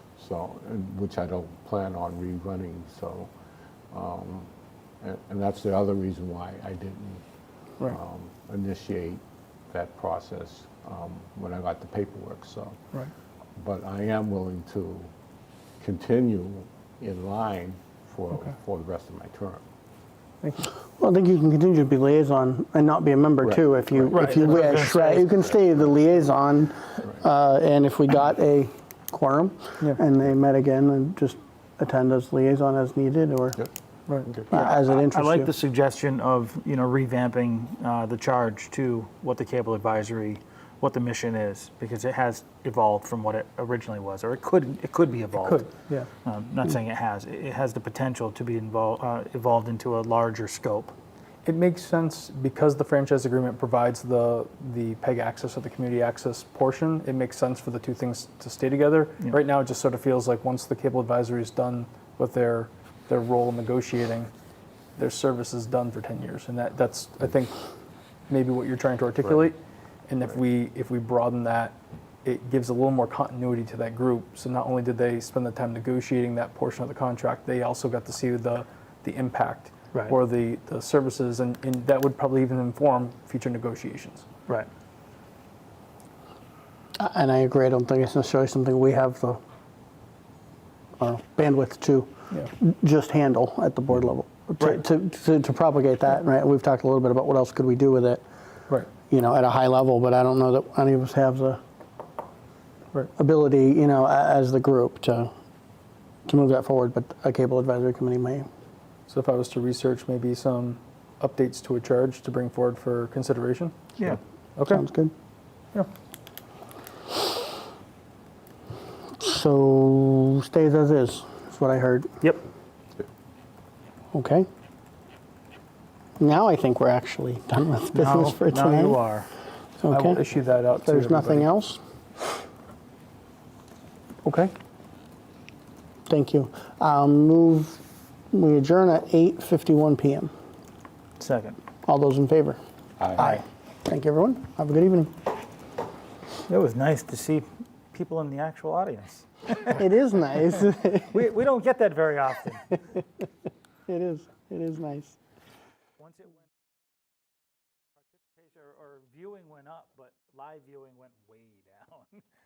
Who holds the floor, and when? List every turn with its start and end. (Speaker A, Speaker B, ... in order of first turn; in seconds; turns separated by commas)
Speaker A: 0.2-3.3, Speaker A: 3.9-7.2, Speaker A: 7.9-12.8, Speaker A: 13.6-15.1, Speaker A: 15.8-19.6, Speaker B: 20.4-20.7, Speaker C: 21.0-33.6, Speaker D: 24.1-25.3, Speaker C: 34.5-35.5, Speaker D: 34.5-45.7, Speaker B: 45.4-46.1, Speaker D: 46.2-50.9, Speaker B: 51.5-64.3, Speaker B: 65.0-67.6, Speaker B: 68.3-84.3, Speaker C: 87.0-89.4, Speaker C: 91.0-98.2, Speaker C: 99.0-101.6, Speaker C: 103.2-105.3, Speaker C: 106.2-108.5, Speaker B: 109.1-113.7, Speaker B: 114.6-114.8, Speaker C: 114.7-115.1, Speaker C: 119.2-122.2, Speaker C: 124.1-124.5, Speaker C: 126.2-129.0, Speaker D: 127.9-129.3, Speaker C: 129.8-130.2, Speaker B: 129.9-131.4, Speaker C: 130.8-131.8, Speaker B: 134.2-134.5, Speaker C: 136.1-140.3, Speaker D: 141.2-141.6, Speaker C: 141.8-142.6, Speaker A: 143.0-143.3, Speaker C: 143.2-145.1, Speaker D: 146.5-149.8, Speaker C: 149.7-151.2, Speaker D: 151.1-152.8, Speaker C: 153.9-155.2, Speaker D: 156.0-156.4, Speaker D: 158.2-162.2